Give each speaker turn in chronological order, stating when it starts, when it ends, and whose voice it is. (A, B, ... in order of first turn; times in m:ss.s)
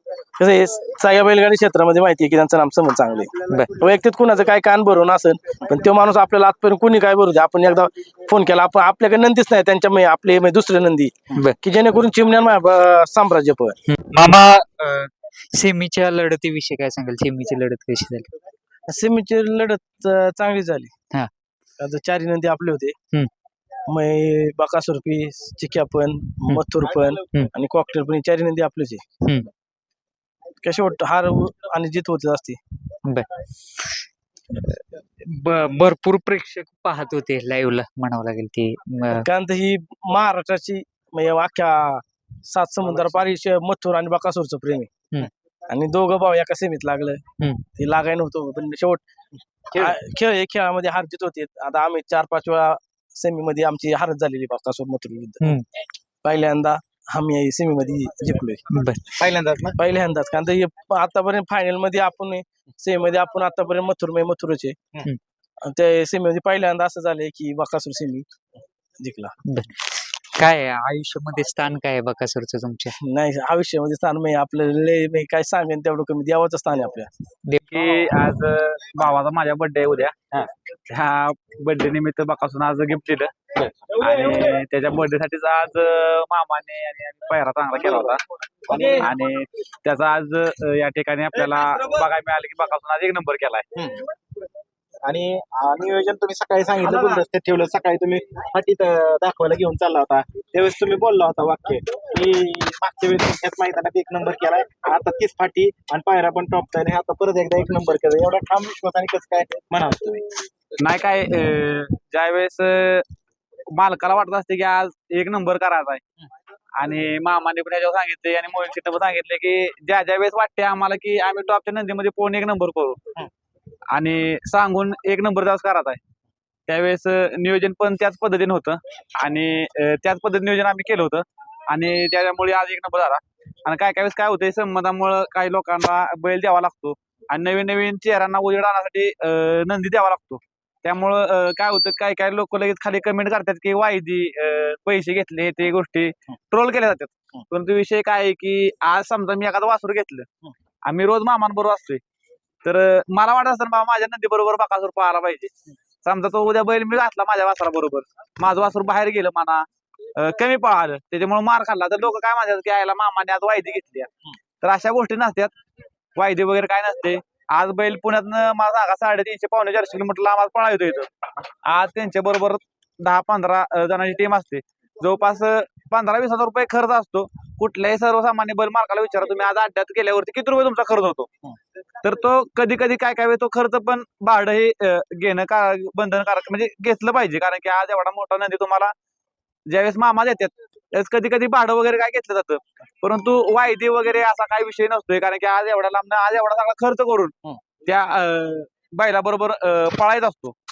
0:00.4-0:13.8 A
0:03.5-0:03.7 B
0:13.9-0:18.3 B
0:18.9-0:20.9 A
0:21.8-0:23.0 A
0:23.9-0:29.0 A
0:29.2-0:29.5 B
0:30.6-0:32.6 A
0:34.5-0:39.2 B
0:39.2-0:44.9 A
0:45.7-0:47.2 A
0:47.8-0:49.0 A
0:49.7-0:50.0 C
0:49.7-0:55.5 A
0:56.2-0:58.6 A
0:58.7-0:59.1 B
0:59.1-0:59.8 C
0:59.8-1:04.8 A
1:05.6-1:08.3 A
1:09.0-1:09.3 A
1:09.4-1:12.9 B
1:13.0-1:17.1 A
1:17.7-1:20.2 D
1:20.9-1:23.3 D
1:23.6-1:24.0 C
1:23.9-1:33.7 D
1:28.7-1:29.1 C
1:33.8-1:34.0 C
1:35.0-1:50.2 C
1:50.8-1:53.0 D
1:53.7-1:56.0 D
1:56.8-2:03.2 D
2:03.9-2:06.0 D
2:06.7-2:30.3 D
2:30.8-2:32.0 D
2:32.6-2:35.5 D
2:36.0-2:39.6 D
2:40.2-2:44.1 D
2:44.6-2:45.5 D
2:46.2-2:51.1 D
2:51.7-3:01.3 D
3:02.0-3:08.9 D
3:09.7-3:17.3 D
3:17.8-3:20.5 D